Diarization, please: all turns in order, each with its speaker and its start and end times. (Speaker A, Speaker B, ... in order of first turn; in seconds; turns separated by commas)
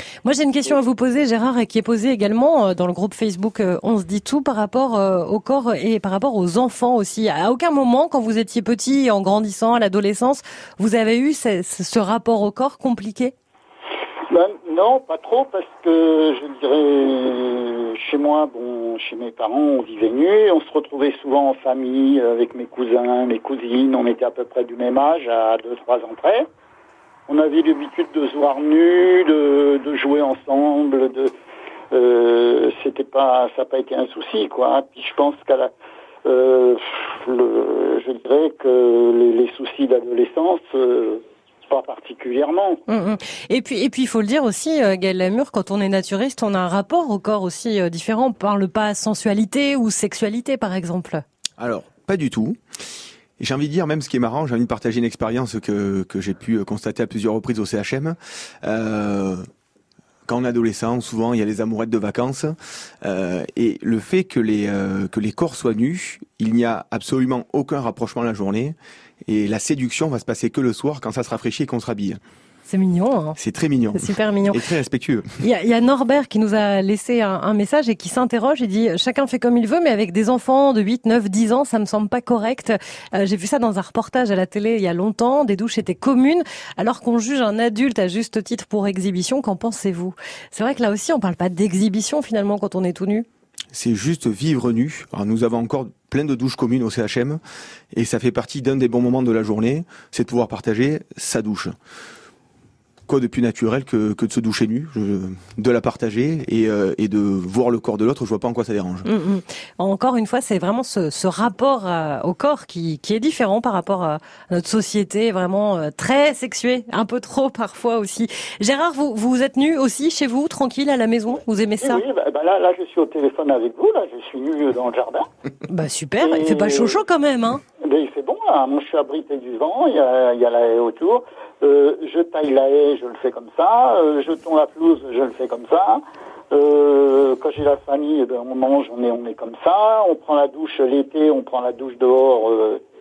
Speaker A: 0.2-13.3, Speaker B: 14.3-26.5, Speaker B: 27.3-31.3, Speaker B: 31.9-35.7, Speaker B: 36.2-42.8, Speaker A: 42.9-51.2, Speaker C: 51.6-52.6, Speaker C: 53.4-59.4, Speaker C: 60.2-72.2, Speaker A: 72.7-73.4, Speaker C: 73.4-75.3, Speaker A: 74.0-74.6, Speaker A: 75.4-93.2, Speaker C: 93.7-97.4, Speaker C: 97.9-101.8, Speaker C: 103.1-109.1, Speaker A: 109.0-122.0, Speaker B: 121.8-125.3, Speaker A: 125.7-127.6, Speaker B: 126.2-127.0, Speaker B: 127.8-142.8